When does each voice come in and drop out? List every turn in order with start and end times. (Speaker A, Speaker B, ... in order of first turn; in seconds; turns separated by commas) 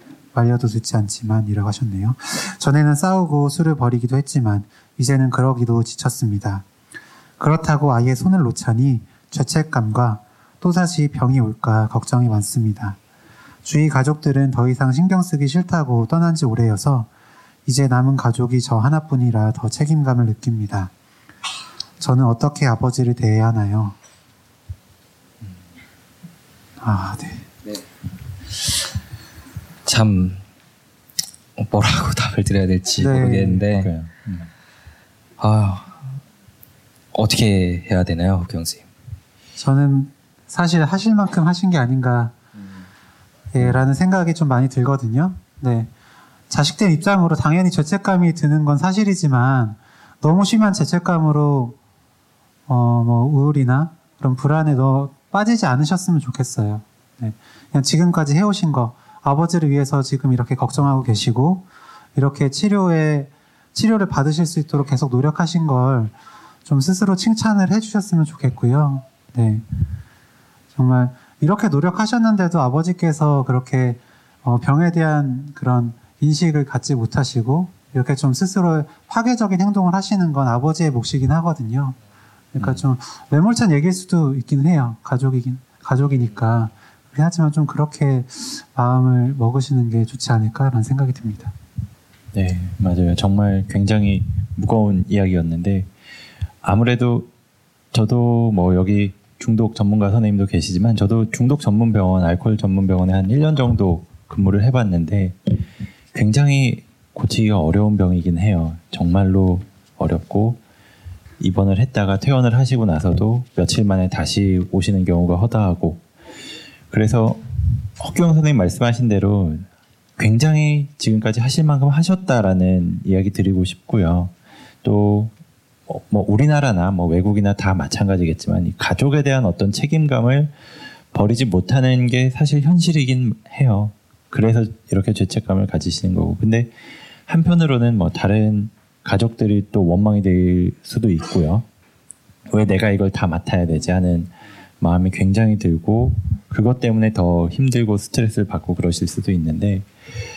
Speaker A: 0.3-6.6, Speaker A: 7.4-13.0, Speaker A: 13.6-17.1, Speaker A: 17.6-20.9, Speaker A: 22.0-23.9, Speaker A: 26.8-27.4, Speaker B: 29.9-30.4, Speaker B: 31.6-33.9, Speaker A: 33.0-33.6, Speaker C: 33.7-34.5, Speaker B: 35.4-36.1, Speaker B: 37.1-38.9, Speaker A: 39.6-42.3, Speaker A: 43.5-45.9, Speaker A: 46.5-51.8, Speaker A: 52.7-66.1, Speaker A: 66.7-69.6, Speaker A: 70.7-82.0, Speaker A: 82.5-91.5, Speaker C: 82.6-82.8, Speaker C: 92.3-95.9, Speaker C: 96.6-97.3, Speaker C: 97.9-110.6, Speaker C: 111.4-116.0, Speaker C: 116.9-119.7, Speaker C: 120.2-125.3, Speaker C: 125.9-130.5, Speaker C: 131.1-136.7, Speaker C: 137.3-141.7, Speaker C: 142.5-149.9